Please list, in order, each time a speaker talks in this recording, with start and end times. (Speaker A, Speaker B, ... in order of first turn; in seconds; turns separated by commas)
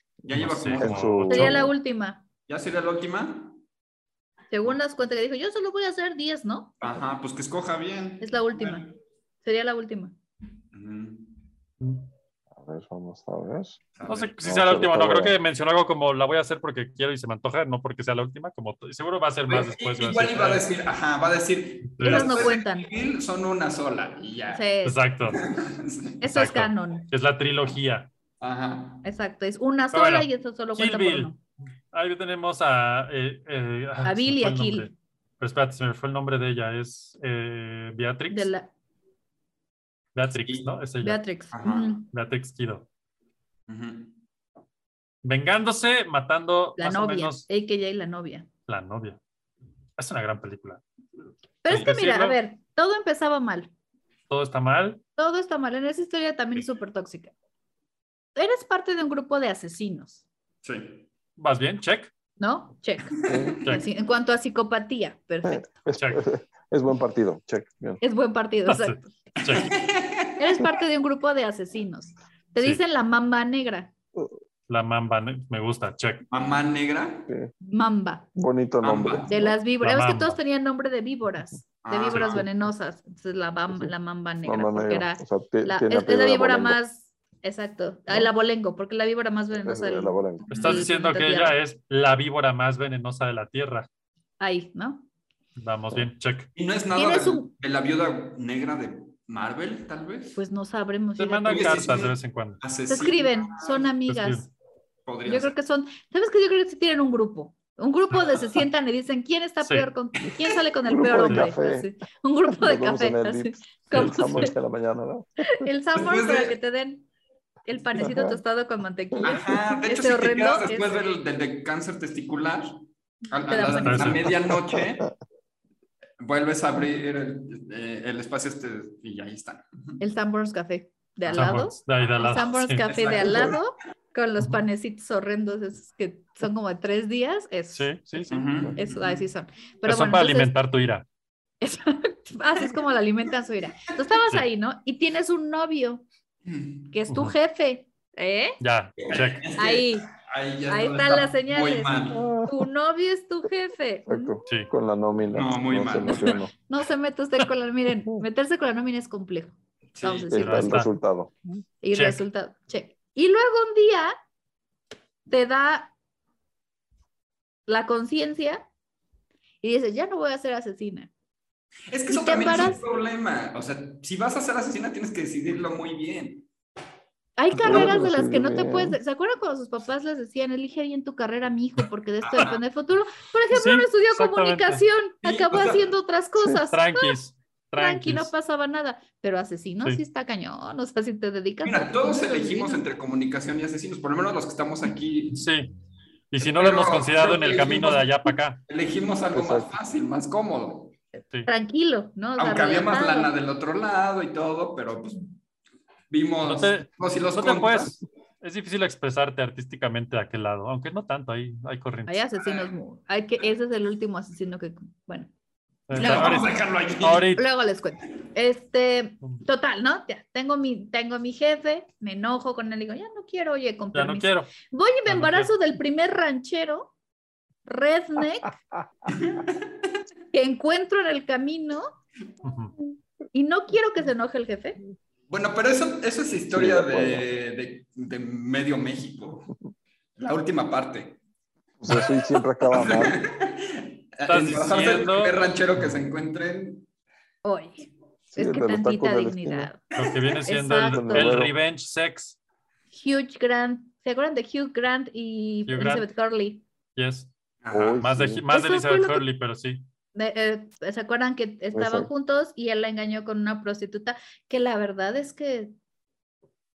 Speaker A: 0.3-1.1, Speaker B: 0.4-1.6, Speaker C: 0.7-1.7, Speaker D: 1.3-2.2, Speaker A: 2.5-3.6, Speaker D: 4.5-6.8, Speaker A: 6.8-8.9, Speaker D: 8.2-8.9, Speaker D: 9.4-10.2, Speaker A: 10.7-11.3, Speaker B: 11.8-12.1, Speaker C: 12.6-13.8, Speaker A: 13.9-14.3, Speaker B: 14.1-20.6, Speaker C: 14.4-15.3, Speaker A: 19.5-24.6, Speaker B: 21.9-22.5, Speaker D: 22.0-22.9, Speaker D: 24.5-25.0, Speaker B: 24.8-25.4, Speaker A: 25.3-26.2, Speaker D: 26.2-27.1, Speaker B: 26.3-28.1, Speaker A: 28.4-29.1, Speaker D: 29.0-31.4, Speaker B: 29.9-31.4, Speaker B: 31.9-38.5, Speaker D: 34.0-34.9, Speaker D: 38.3-38.7, Speaker B: 40.1-41.2, Speaker A: 40.5-40.8, Speaker D: 41.0-42.1, Speaker A: 41.5-42.0, Speaker B: 42.1-42.9, Speaker A: 43.7-44.2, Speaker B: 45.2-47.5, Speaker D: 46.8-48.5, Speaker B: 48.7-49.2, Speaker B: 50.0-50.8, Speaker D: 51.6-53.7, Speaker B: 51.7-52.4, Speaker B: 54.3-55.0, Speaker D: 55.2-57.3, Speaker D: 58.4-60.2, Speaker A: 60.6-61.1, Speaker B: 61.4-62.1, Speaker D: 62.4-65.7, Speaker A: 63.1-63.6, Speaker C: 63.3-63.6, Speaker C: 65.5-68.0, Speaker B: 66.0-66.2, Speaker D: 68.0-69.2, Speaker B: 68.7-69.7, Speaker A: 69.4-70.7, Speaker D: 70.4-73.9, Speaker B: 74.7-76.2, Speaker A: 76.3-77.3, Speaker D: 77.6-78.3, Speaker C: 78.4-79.6, Speaker A: 78.8-79.3, Speaker D: 79.3-91.6, Speaker B: 79.8-80.4, Speaker A: 81.8-82.5, Speaker C: 84.4-86.8, Speaker C: 89.5-90.5, Speaker B: 90.5-93.9, Speaker A: 90.5-90.8, Speaker D: 94.4-95.0, Speaker B: 95.6-96.5, Speaker A: 96.6-100.4, Speaker D: 96.9-97.5, Speaker D: 100.4-101.9, Speaker B: 101.2-102.6, Speaker A: 101.5-103.9, Speaker D: 102.9-104.5, Speaker B: 104.1-104.5, Speaker A: 105.1-105.5, Speaker D: 105.3-114.5, Speaker B: 109.6-109.9, Speaker C: 110.8-111.9, Speaker B: 111.3-111.5, Speaker C: 112.5-115.7, Speaker B: 113.9-114.5, Speaker D: 115.5-117.1, Speaker A: 115.9-116.5, Speaker D: 117.7-121.2, Speaker C: 118.0-118.4, Speaker C: 119.1-119.7, Speaker A: 119.2-125.1, Speaker D: 123.5-124.3, Speaker B: 123.8-124.3, Speaker C: 124.4-125.1, Speaker A: 126.2-130.0, Speaker D: 130.0-140.5, Speaker A: 131.3-131.5, Speaker B: 131.3-132.9, Speaker A: 132.2-133.6, Speaker B: 137.7-138.4, Speaker A: 138.3-139.3, Speaker B: 139.8-141.1, Speaker D: 141.6-146.0, Speaker A: 146.5-146.9, Speaker D: 146.9-148.6, Speaker B: 147.1-147.3, Speaker B: 148.6-149.5, Speaker A: 149.0-152.4, Speaker D: 149.6-150.1, Speaker D: 150.7-154.4, Speaker C: 152.1-152.6, Speaker C: 154.1-156.5, Speaker A: 155.3-156.4, Speaker D: 156.7-160.8, Speaker A: 159.9-160.3, Speaker C: 160.3-161.3, Speaker B: 160.3-160.9, Speaker D: 161.8-164.1, Speaker B: 161.9-162.2, Speaker D: 165.3-165.9, Speaker D: 167.7-168.7, Speaker D: 169.6-171.1, Speaker A: 171.9-176.5, Speaker D: 172.1-172.8, Speaker D: 177.4-187.1, Speaker C: 177.6-179.0, Speaker A: 182.2-182.6, Speaker B: 183.5-184.8, Speaker A: 185.2-185.8, Speaker C: 186.4-186.6, Speaker B: 186.7-188.3, Speaker D: 187.8-192.8, Speaker A: 191.6-195.4, Speaker B: 195.3-195.7, Speaker B: 196.3-198.6, Speaker A: 196.4-198.1, Speaker A: 198.7-200.9, Speaker C: 199.3-199.7, Speaker D: 201.5-203.3, Speaker A: 202.4-205.3, Speaker A: 206.1-208.0, Speaker B: 206.4-212.2, Speaker D: 212.1-215.3, Speaker A: 212.4-212.8, Speaker B: 215.9-217.5, Speaker D: 215.9-216.5, Speaker A: 215.9-217.3, Speaker D: 217.4-226.9, Speaker B: 223.9-224.6, Speaker B: 225.1-225.5, Speaker D: 227.7-228.6, Speaker A: 229.1-229.6, Speaker D: 230.3-231.9, Speaker B: 232.4-232.8, Speaker D: 233.3-234.8, Speaker A: 235.3-239.5, Speaker C: 236.5-237.2, Speaker A: 240.2-241.2, Speaker C: 241.8-243.2, Speaker A: 241.9-246.9, Speaker B: 244.3-246.0, Speaker D: 247.4-249.8, Speaker C: 248.3-249.7, Speaker B: 250.0-252.4, Speaker A: 250.0-250.4, Speaker D: 250.5-251.4, Speaker C: 250.9-251.6, Speaker D: 252.9-256.6, Speaker B: 255.7-256.1, Speaker B: 257.0-257.3, Speaker A: 257.6-258.0, Speaker C: 257.7-258.4, Speaker B: 258.0-259.9, Speaker D: 258.5-259.2, Speaker D: 260.1-265.7, Speaker C: 261.7-262.1